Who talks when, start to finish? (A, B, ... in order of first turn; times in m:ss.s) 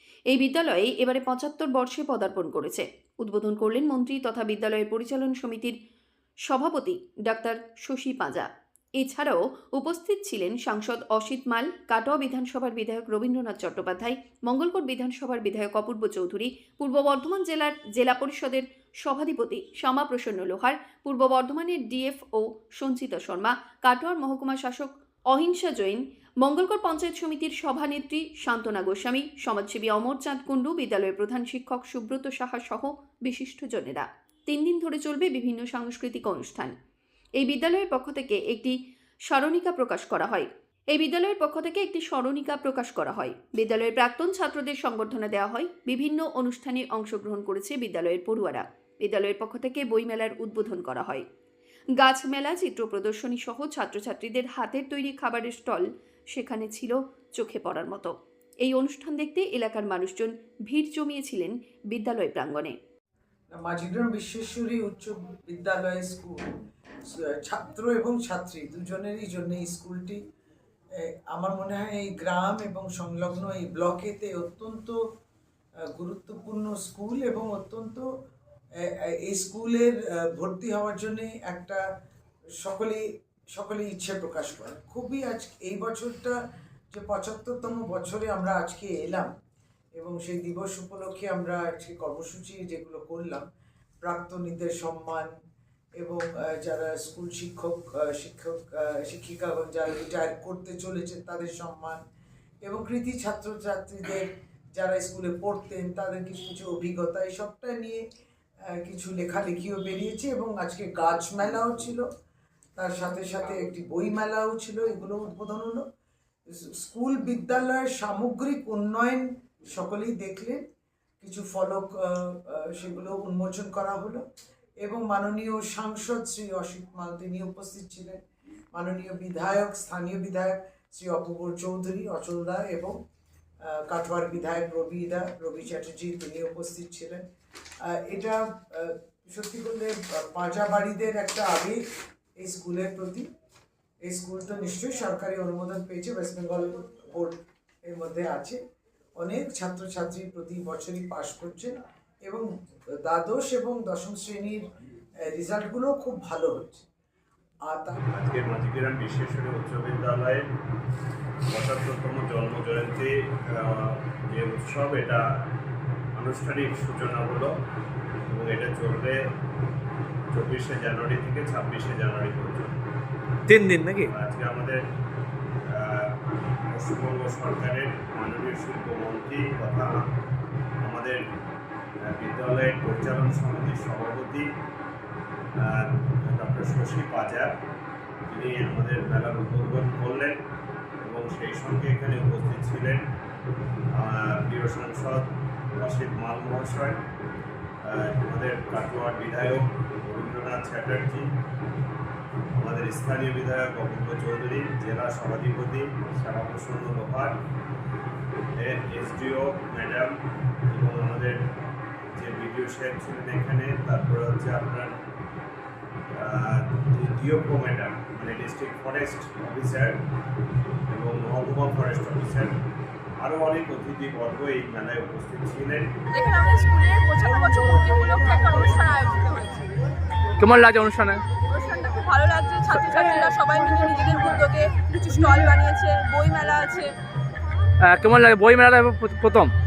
0:00.3-0:05.7 A
0:06.5-0:08.5 A
0:09.0-0:36.7 A
0:37.4-0:38.7 A
0:39.3-0:51.2 A
0:52.0-1:02.8 A
1:03.5-1:06.4 B
1:07.1-1:10.2 B
1:11.0-1:15.0 B
1:15.9-1:18.0 B
1:18.8-1:21.8 B
1:22.6-1:23.0 B
1:23.5-1:26.4 B
1:26.9-1:29.3 B
1:30.0-1:33.4 B
1:34.0-1:35.3 B
1:36.0-1:42.0 B
1:42.6-1:48.0 B
1:48.7-1:52.1 B
1:52.8-1:55.8 B
1:56.5-2:00.6 B
2:01.2-2:04.2 B
2:04.8-2:08.2 B
2:08.7-2:13.0 B
2:13.6-2:17.2 B
2:17.8-2:21.8 B
2:22.4-2:23.3 B
2:24.0-2:28.6 B
2:29.2-2:32.4 B
2:33.0-2:34.6 B
2:35.3-2:36.9 B
2:37.7-2:38.0 B
2:38.1-2:40.4 C
2:41.5-2:45.2 C
2:46.2-2:47.5 C
2:48.3-2:49.2 C
2:50.3-2:52.8 C
2:53.5-2:54.1 D
2:54.0-2:54.8 C
2:55.7-2:56.2 C
2:56.7-3:00.0 C
3:00.8-3:01.2 C
3:02.1-3:04.5 C
3:05.6-3:07.5 C
3:08.3-3:10.4 C
3:11.0-3:13.0 C
3:14.0-3:17.0 C
3:17.8-3:21.3 C
3:22.6-3:27.4 C
3:28.6-3:31.4 C
3:32.2-3:34.9 C
3:36.2-3:40.0 C
3:40.9-3:42.6 C
3:43.2-3:45.9 C
3:46.1-3:49.7 E
3:50.4-3:51.2 D
3:51.4-3:56.9 E
3:57.8-3:59.5 D